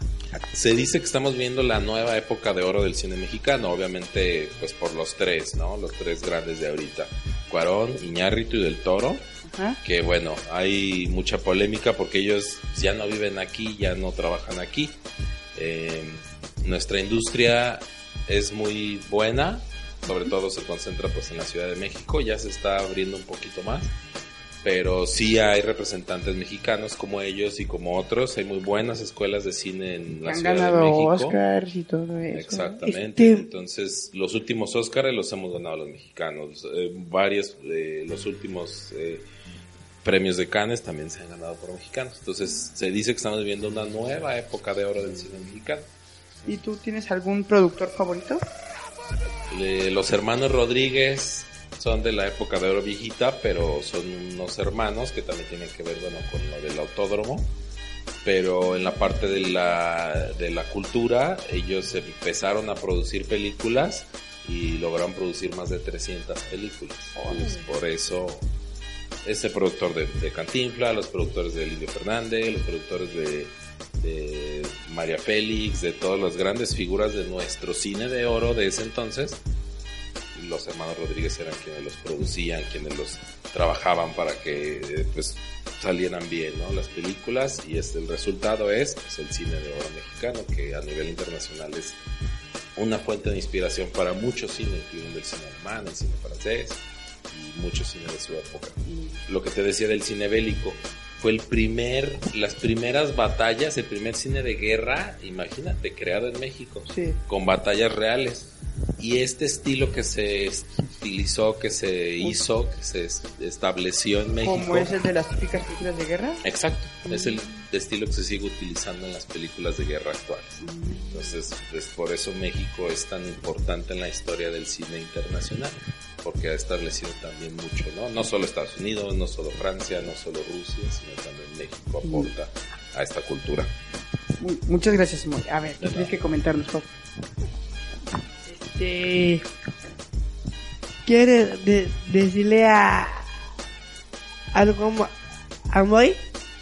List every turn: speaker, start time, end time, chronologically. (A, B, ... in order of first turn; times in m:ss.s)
0:00.5-0:09.3 A
0:09.4-0:09.8 B
0:09.8-0:15.0 A
0:15.5-0:23.9 A
0:24.6-0:31.4 A
0:30.2-0:32.8 B
0:32.3-0:39.2 A
0:32.8-0:33.5 C
0:40.0-0:45.9 A
0:46.4-0:48.4 B
0:49.5-0:57.5 A
0:58.2-1:08.5 A
1:07.2-1:07.7 B
1:09.2-1:19.4 A
1:20.3-1:32.0 A
1:32.8-1:54.9 A
1:38.9-1:39.2 B
1:46.9-1:47.2 B
1:54.4-1:56.4 B
1:56.4-2:13.7 A
1:57.0-1:57.6 B
2:00.6-2:01.4 B
2:12.0-2:12.3 B
2:14.4-2:16.9 B
2:15.8-2:16.1 A
2:18.4-2:19.4 C
2:21.0-2:23.4 C
2:24.5-2:25.2 C
2:25.7-2:26.2 C